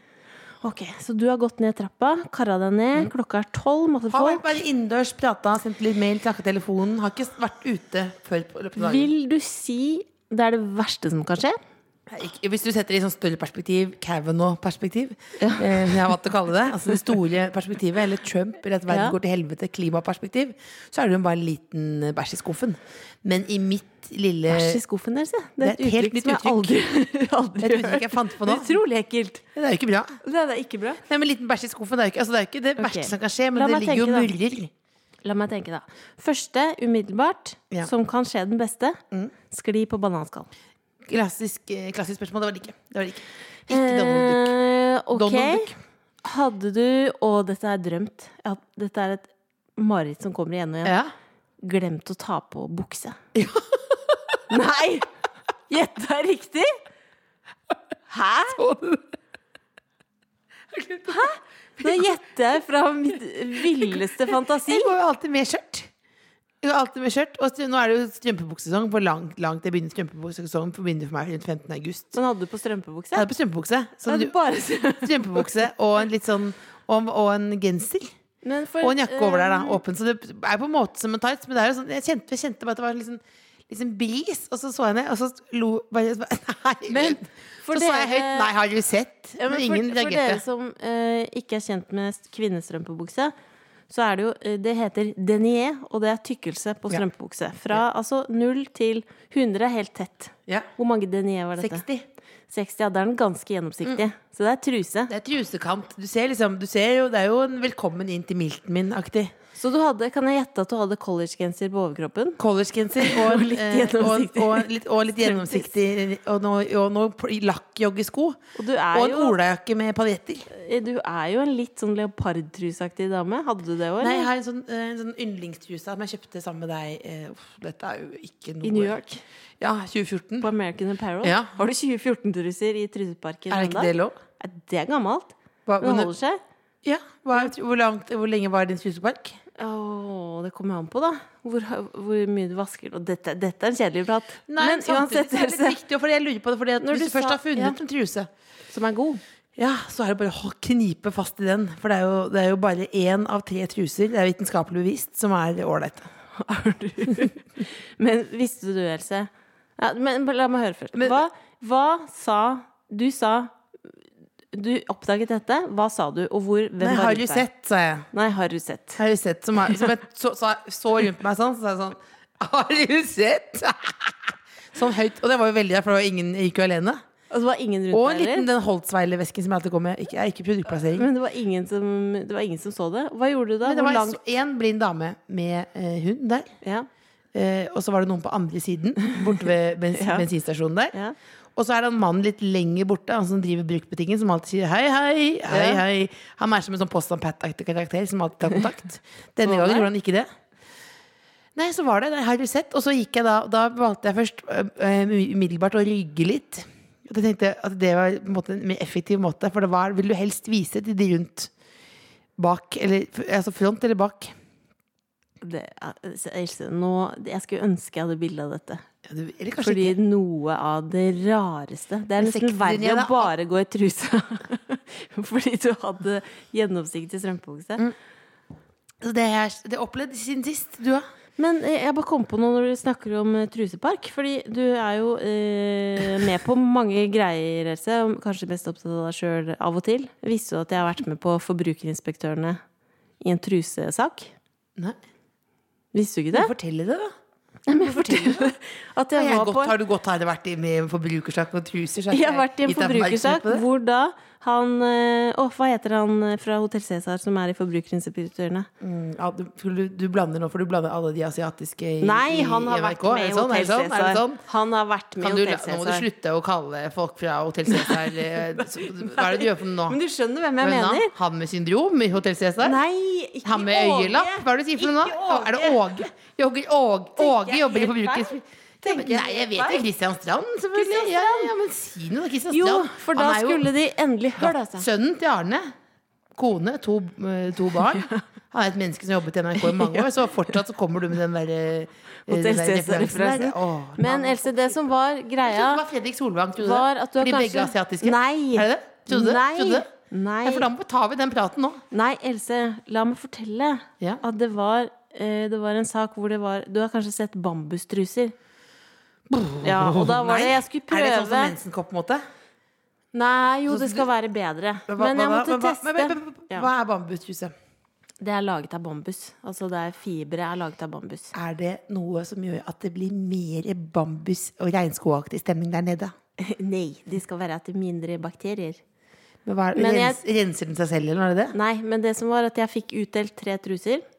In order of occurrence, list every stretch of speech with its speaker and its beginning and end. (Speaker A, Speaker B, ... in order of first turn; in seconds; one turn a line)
Speaker A: 0.6-4.6
Speaker B: 4.1-9.1
Speaker A: 8.8-11.6
Speaker B: 12.1-24.8
Speaker A: 15.4-15.9
Speaker A: 18.9-19.1
Speaker A: 24.5-29.4
Speaker B: 25.6-26.8
Speaker B: 27.6-28.7
Speaker B: 29.5-30.2
Speaker A: 30.2-31.0
Speaker B: 31.1-34.7
Speaker A: 32.8-34.3
Speaker A: 35.2-40.5
Speaker B: 41.0-44.6
Speaker A: 43.7-45.7
Speaker B: 45.1-45.8
Speaker A: 46.2-51.0
Speaker B: 50.8-51.1
Speaker A: 51.6-53.2
Speaker B: 53.3-54.4
Speaker A: 54.5-55.1
Speaker A: 55.7-56.8
Speaker A: 58.1-58.6
Speaker B: 58.5-59.1
Speaker B: 60.7-62.1
Speaker A: 61.1-64.9
Speaker B: 63.6-65.9
Speaker B: 66.6-72.2
Speaker A: 72.1-73.3
Speaker B: 73.1-74.3
Speaker A: 74.0-75.7
Speaker B: 74.9-78.1
Speaker A: 78.4-79.8
Speaker B: 78.8-90.4
Speaker A: 86.9-88.5
Speaker A: 89.4-93.3
Speaker A: 93.9-101.8
Speaker B: 101.6-102.0
Speaker A: 102.5-105.1
Speaker B: 105.1-109.3
Speaker A: 109.5-112.4
Speaker B: 112.4-118.4
Speaker A: 113.0-114.7
Speaker A: 115.2-115.7
Speaker A: 118.5-119.3
Speaker B: 118.9-120.5
Speaker A: 120.5-124.3
Speaker B: 124.0-129.0
Speaker A: 128.6-129.2
Speaker B: 129.6-130.5
Speaker A: 130.4-136.4
Speaker B: 131.2-131.5
Speaker B: 133.5-134.2
Speaker B: 135.7-136.1
Speaker B: 136.8-139.4
Speaker A: 139.6-145.8
Speaker B: 144.5-148.3
Speaker A: 146.8-147.8
Speaker A: 148.7-149.2
Speaker B: 149.6-156.1
Speaker A: 156.3-163.5
Speaker B: 160.9-161.2
Speaker A: 164.5-167.5
Speaker B: 166.8-168.1
Speaker A: 168.1-169.0
Speaker B: 169.0-177.0
Speaker A: 177.3-178.5
Speaker B: 177.9-181.1
Speaker A: 180.9-184.2
Speaker B: 183.6-186.5
Speaker B: 187.3-190.9
Speaker A: 189.9-190.2
Speaker B: 191.6-200.3
Speaker A: 195.5-195.8
Speaker A: 199.4-199.9
Speaker B: 201.5-211.5
Speaker B: 212.4-214.3
Speaker A: 215.4-218.8
Speaker B: 219.0-220.0
Speaker A: 219.6-227.8
Speaker B: 222.2-223.3
Speaker B: 229.0-231.0
Speaker A: 231.4-242.6
Speaker A: 243.2-244.3
Speaker A: 245.9-246.5
Speaker B: 246.3-247.1
Speaker A: 247.7-249.8
Speaker B: 247.8-248.5
Speaker B: 249.1-253.6
Speaker A: 252.1-258.7
Speaker B: 258.8-264.4
Speaker A: 262.0-266.1
Speaker B: 265.2-270.0
Speaker A: 267.7-271.1
Speaker B: 270.6-272.8
Speaker A: 272.6-275.8
Speaker B: 273.4-283.7
Speaker A: 277.2-279.8
Speaker A: 280.7-281.5
Speaker A: 282.5-284.9
Speaker B: 284.4-285.7
Speaker B: 286.3-294.8
Speaker A: 287.9-288.2
Speaker A: 289.6-290.5
Speaker A: 292.2-295.8
Speaker B: 295.4-299.9
Speaker A: 296.6-300.6
Speaker B: 300.4-301.8
Speaker A: 301.9-308.3
Speaker B: 309.3-312.2
Speaker A: 309.6-311.6
Speaker A: 313.1-316.7
Speaker B: 313.7-314.1
Speaker B: 314.9-317.5
Speaker A: 318.2-321.3
Speaker B: 321.3-326.1
Speaker A: 326.4-328.8
Speaker B: 329.4-331.6
Speaker A: 329.7-330.2
Speaker A: 331.5-334.0